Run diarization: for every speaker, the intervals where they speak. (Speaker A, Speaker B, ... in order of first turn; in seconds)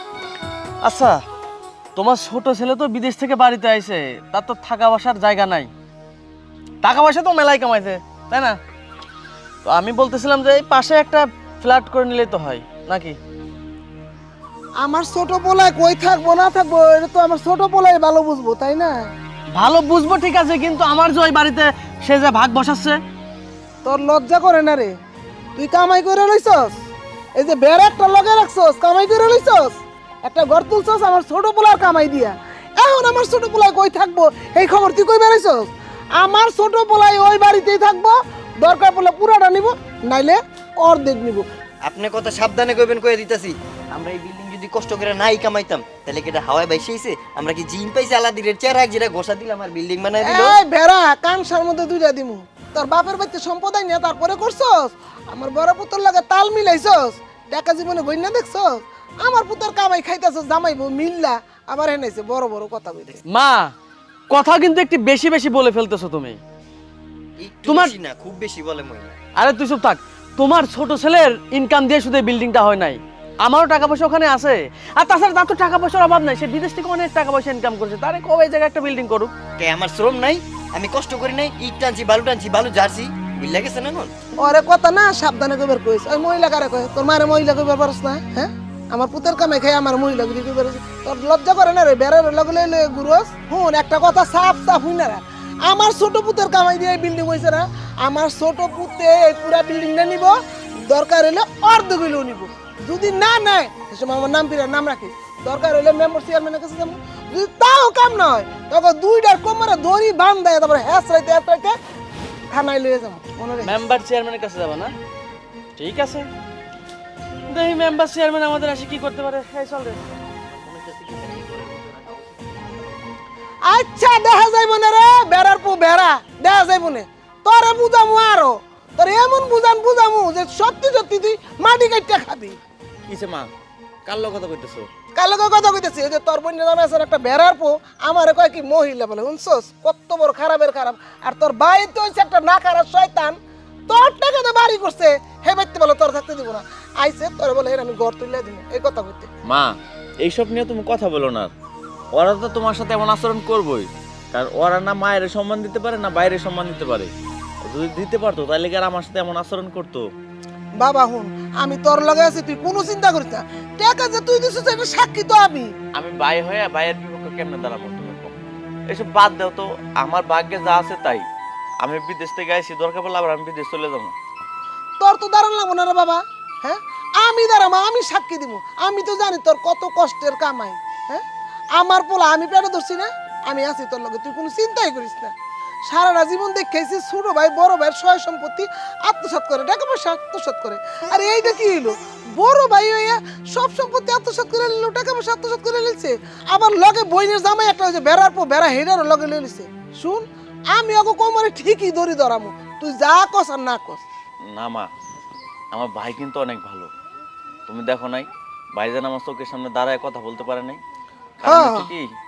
Speaker A: 0.8-1.2, 2.0-5.7, 6.8-8.6, 9.7-13.2, 19.5-23.0, 63.3-63.7, 64.3-66.4, 67.7-68.0, 69.4-79.3, 113.6-114.9, 115.8-116.3, 117.5-120.0
Speaker B: 14.8-19.1, 23.9-24.9, 25.6-26.8, 27.4-41.5, 50.2-63.2, 84.4-111.8, 112.5-113.8, 123.7-132.6, 135.2-143.4, 143.9-149.3, 160.8-165.7, 175.0-185.3, 185.8-204.0, 211.4-211.9
Speaker C: 41.8-50.6, 67.4-69.2, 79.6-84.1, 120.4-123.0
Speaker D: 133.1-133.5, 134.1-134.9, 149.5-151.5, 152.2-157.1, 157.6-160.1, 165.9-168.4, 168.9-171.3, 171.8-174.1, 204.5-204.9, 205.7-206.9, 207.7-210.8, 211.4-212.1